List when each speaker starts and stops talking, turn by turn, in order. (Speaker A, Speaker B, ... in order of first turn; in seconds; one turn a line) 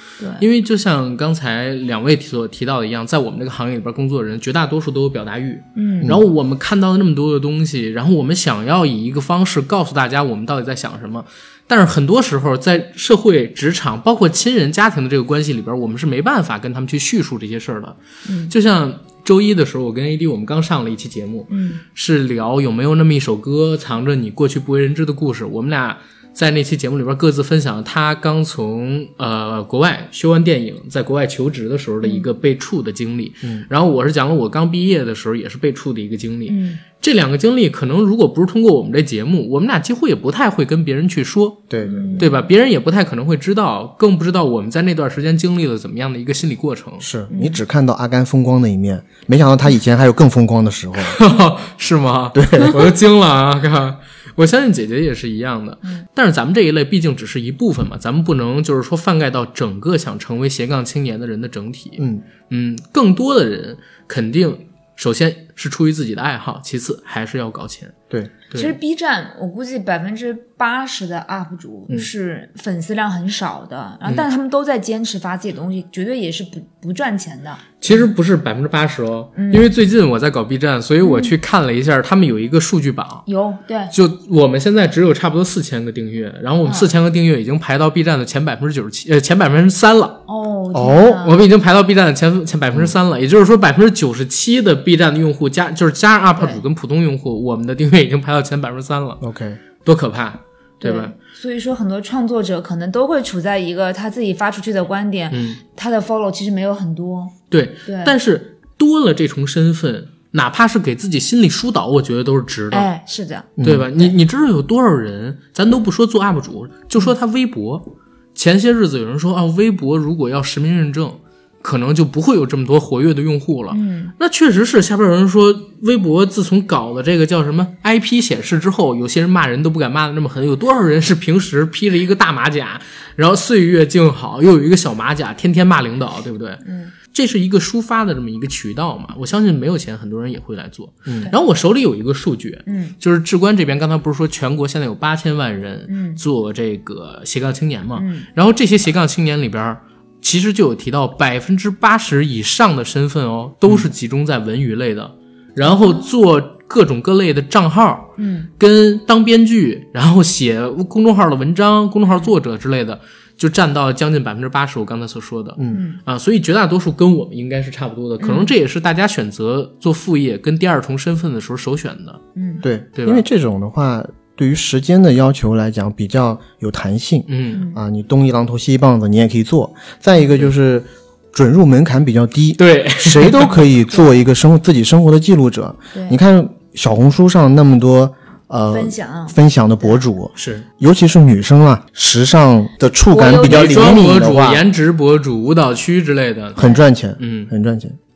Speaker A: 0.2-0.4
Speaker B: 0.4-18.0
Speaker A: 5.8-6.2
Speaker A: 18.2-18.5
Speaker B: 18.5-41.6
Speaker A: 21.5-21.8
Speaker A: 32.0-32.3
Speaker A: 36.5-36.8
Speaker C: 41.7-42.3
Speaker A: 41.8-42.5
Speaker B: 42.2-47.0
Speaker C: 47.0-51.2
Speaker A: 47.3-47.6
Speaker B: 51.0-67.9
Speaker C: 52.3-52.8
Speaker C: 62.0-62.2
Speaker A: 68.5-77.8
Speaker B: 77.8-83.2
Speaker A: 79.3-79.7
Speaker A: 81.0-81.3
Speaker A: 83.3-83.9
Speaker B: 83.9-90.2
Speaker A: 86.6-86.9
Speaker A: 90.3-91.5
Speaker C: 90.7-91.2
Speaker B: 91.2-99.2
Speaker C: 99.2-99.6
Speaker B: 99.8-101.1
Speaker A: 100.8-107.3
Speaker B: 105.3-105.6
Speaker B: 107.5-112.9
Speaker A: 107.8-108.1
Speaker A: 112.7-114.1
Speaker C: 113.6-113.9
Speaker B: 113.6-172.2
Speaker A: 123.7-124.1
Speaker A: 136.6-136.9
Speaker C: 141.1-141.3
Speaker A: 142.7-142.9
Speaker A: 145.9-146.2
Speaker A: 147.9-148.3
Speaker A: 155.6-156.1
Speaker A: 158.2-158.5
Speaker C: 165.6-165.8
Speaker A: 165.7-166.0
Speaker A: 168.2-168.5
Speaker A: 172.3-172.6
Speaker C: 172.6-194.6
Speaker B: 172.9-173.2
Speaker B: 177.3-177.6
Speaker A: 177.5-177.8
Speaker B: 182.6-183.6
Speaker A: 183.6-184.1
Speaker A: 188.7-190.0
Speaker B: 190.3-190.6
Speaker A: 193.1-194.0
Speaker B: 193.4-196.7
Speaker C: 196.6-198.0
Speaker B: 197.2-197.5